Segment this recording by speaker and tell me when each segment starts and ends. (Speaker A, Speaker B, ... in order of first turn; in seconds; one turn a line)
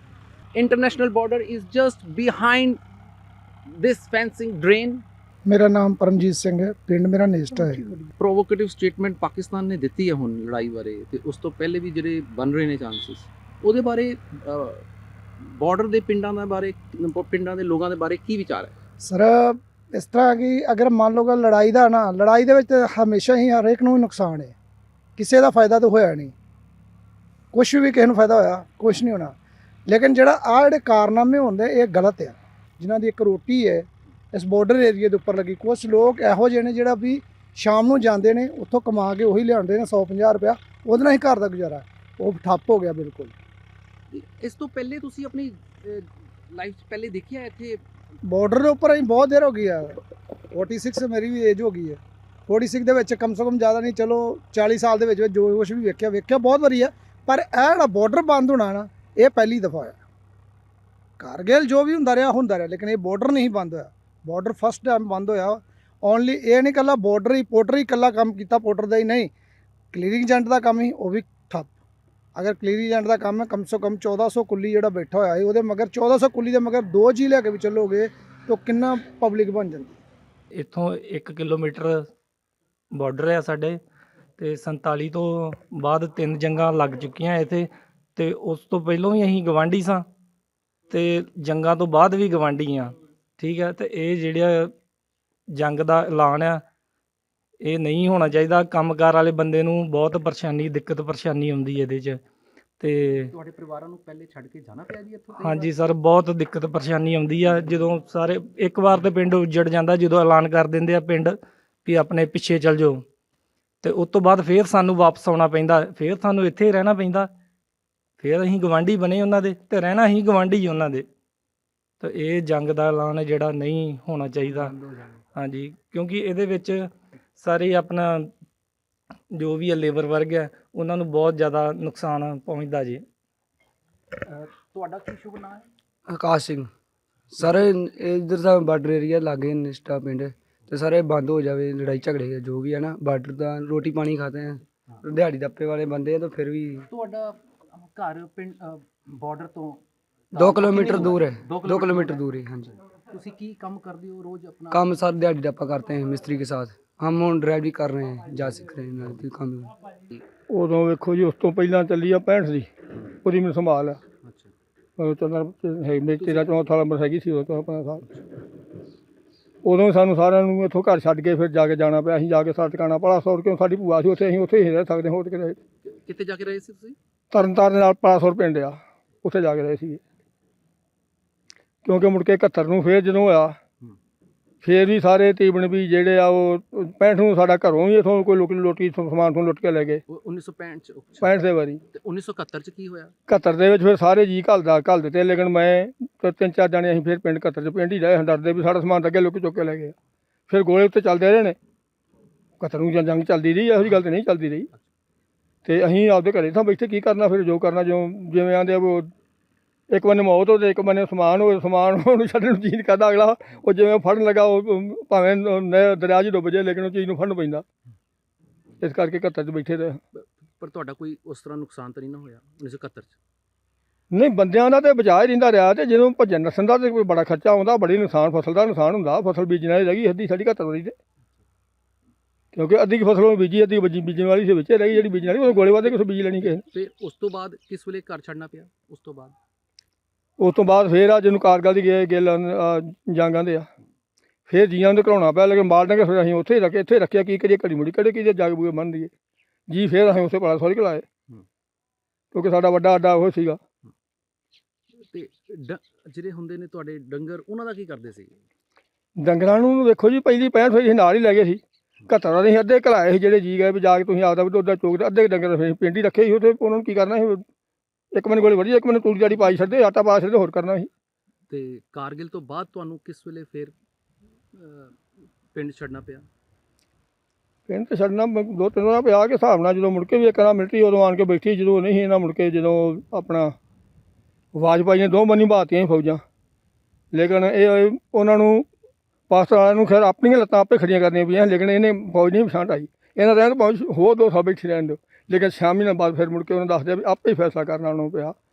Speaker A: 0.6-2.8
Speaker A: 3.7-5.0
Speaker B: 5.5-7.8
Speaker A: 7.6-14.8
Speaker A: 15.4-18.7
Speaker B: 19.0-24.5
Speaker B: 25.2-26.3
Speaker B: 27.5-29.3
Speaker B: 29.9-43.3
Speaker A: 44.1-47.8
Speaker B: 48.3-50.0
Speaker B: 50.5-60.0
Speaker B: 61.2-69.3
Speaker B: 69.9-71.7
Speaker B: 72.3-80.0
Speaker C: 80.5-82.0
Speaker C: 82.9-83.8
Speaker C: 84.4-90.0
Speaker C: 90.9-94.7
Speaker C: 95.5-96.6
Speaker C: 97.6-102.2
Speaker C: 102.8-103.3
Speaker A: 103.3-105.7
Speaker C: 105.4-113.0
Speaker C: 113.8-117.3
Speaker C: 118.2-121.0
Speaker C: 122.0-124.8
Speaker D: 124.7-125.1
Speaker C: 125.3-128.3
Speaker C: 129.3-133.0
Speaker A: 134.2-135.6
Speaker D: 136.1-136.7
Speaker D: 137.3-146.8
Speaker A: 146.9-152.2
Speaker D: 150.4-152.8
Speaker A: 153.0-155.0
Speaker D: 154.7-159.7
Speaker E: 160.5-164.0
Speaker A: 164.2-164.5
Speaker E: 165.0-168.0
Speaker A: 166.2-166.6
Speaker E: 169.6-175.6
Speaker A: 175.8-177.0
Speaker E: 177.3-180.0
Speaker E: 181.8-183.6
Speaker E: 184.6-190.0
Speaker A: 190.1-191.3
Speaker E: 191.2-191.8
Speaker A: 191.9-193.1
Speaker E: 193.3-199.9
Speaker E: 200.5-201.6
Speaker E: 202.6-204.7
Speaker E: 205.6-209.1
Speaker E: 209.9-217.6
Speaker E: 218.8-220.0
Speaker A: 220.1-223.2
Speaker E: 224.1-230.9
Speaker E: 232.5-236.6
Speaker A: 235.8-239.3
Speaker E: 240.4-243.7
Speaker E: 244.5-249.1
Speaker E: 249.7-251.0
Speaker E: 252.3-253.6
Speaker A: 255.1-258.4
Speaker E: 259.2-267.4
Speaker E: 268.1-270.9
Speaker A: 271.5-273.7
Speaker A: 274.5-275.0
Speaker A: 275.5-276.2
Speaker E: 277.7-283.5
Speaker E: 284.5-286.2
Speaker E: 287.1-288.7
Speaker E: 289.3-298.3